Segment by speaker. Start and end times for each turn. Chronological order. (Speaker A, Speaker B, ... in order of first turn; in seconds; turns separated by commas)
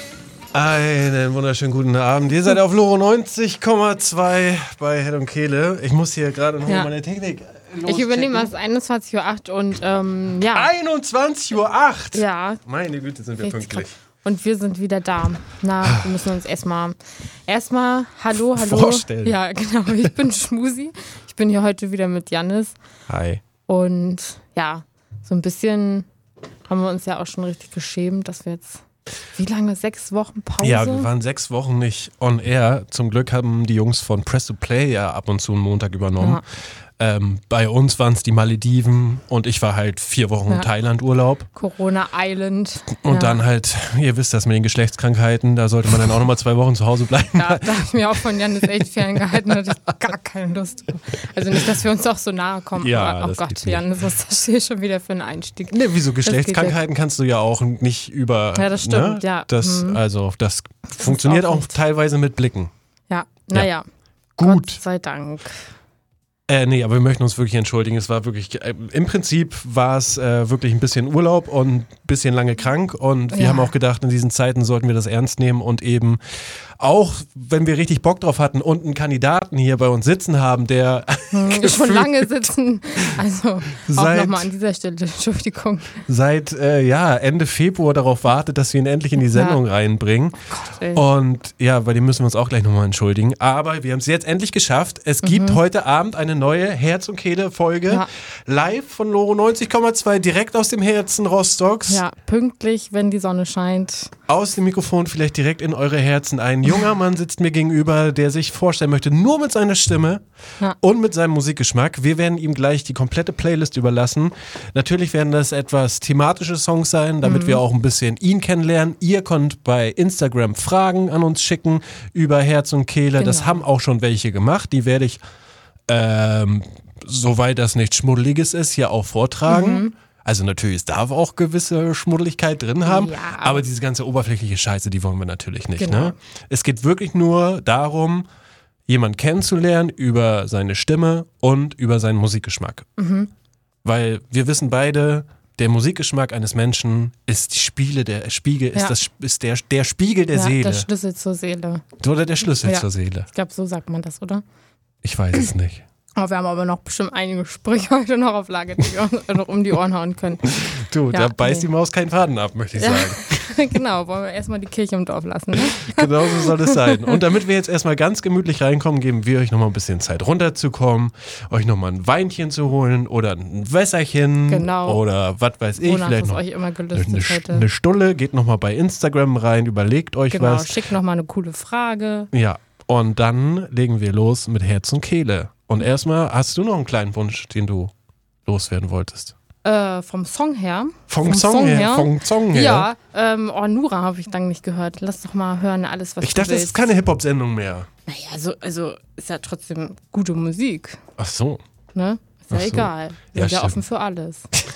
Speaker A: 0.5-8.5, Speaker B: 6.7-6.9, Speaker B: 7.8-10.7, Speaker A: 10.5-13.9, Speaker B: 12.1-12.6, Speaker B: 13.4-22.8, Speaker A: 18.5-19.4, Speaker A: 23.1-23.4, Speaker B: 23.6-26.1, Speaker B: 26.7-28.8, Speaker B: 29.3-31.1, Speaker A: 30.6-36.4, Speaker A: 37.0-41.5, Speaker B: 41.5-43.4, Speaker A: 43.0-47.8, Speaker B: 47.3-56.8, Speaker A: 52.8-53.8, Speaker A: 55.7-62.7, Speaker B: 58.5-60.0, Speaker B: 60.9-61.8, Speaker B: 63.1-63.9, Speaker A: 64.4-64.8, Speaker B: 64.4-65.5, Speaker A: 66.5-76.2, Speaker B: 73.3-73.7, Speaker A: 76.8-82.2, Speaker B: 81.3-86.0, Speaker A: 83.8-84.5, Speaker A: 86.1-90.4, Speaker B: 89.3-89.6, Speaker B: 90.5-91.0, Speaker A: 90.9-102.0, Speaker B: 95.2-95.6, Speaker B: 101.9-104.1, Speaker A: 104.3-110.2, Speaker A: 110.8-125.2, Speaker B: 117.2-117.6, Speaker B: 123.2-123.6, Speaker A: 125.9-138.2, Speaker B: 129.5-129.9, Speaker B: 132.8-133.6, Speaker B: 135.8-136.1, Speaker A: 138.9-142.9, Speaker B: 143.0-143.3, Speaker A: 143.8-150.9, Speaker B: 150.3-151.8, Speaker A: 152.0-153.3, Speaker B: 152.6-154.4, Speaker A: 155.0-155.8, Speaker B: 156.2-161.7, Speaker A: 160.6-163.5, Speaker B: 162.8-166.8, Speaker A: 165.7-176.4, Speaker B: 174.5-175.0, Speaker B: 175.8-177.7, Speaker A: 176.9-180.8, Speaker B: 180.3-182.3, Speaker A: 182.3-187.9, Speaker A: 188.4-189.3, Speaker B: 189.6-196.9, Speaker A: 191.1-192.9, Speaker A: 196.2-197.9, Speaker B: 198.1-201.0, Speaker A: 201.2-201.6, Speaker B: 201.9-204.5, Speaker A: 202.5-203.8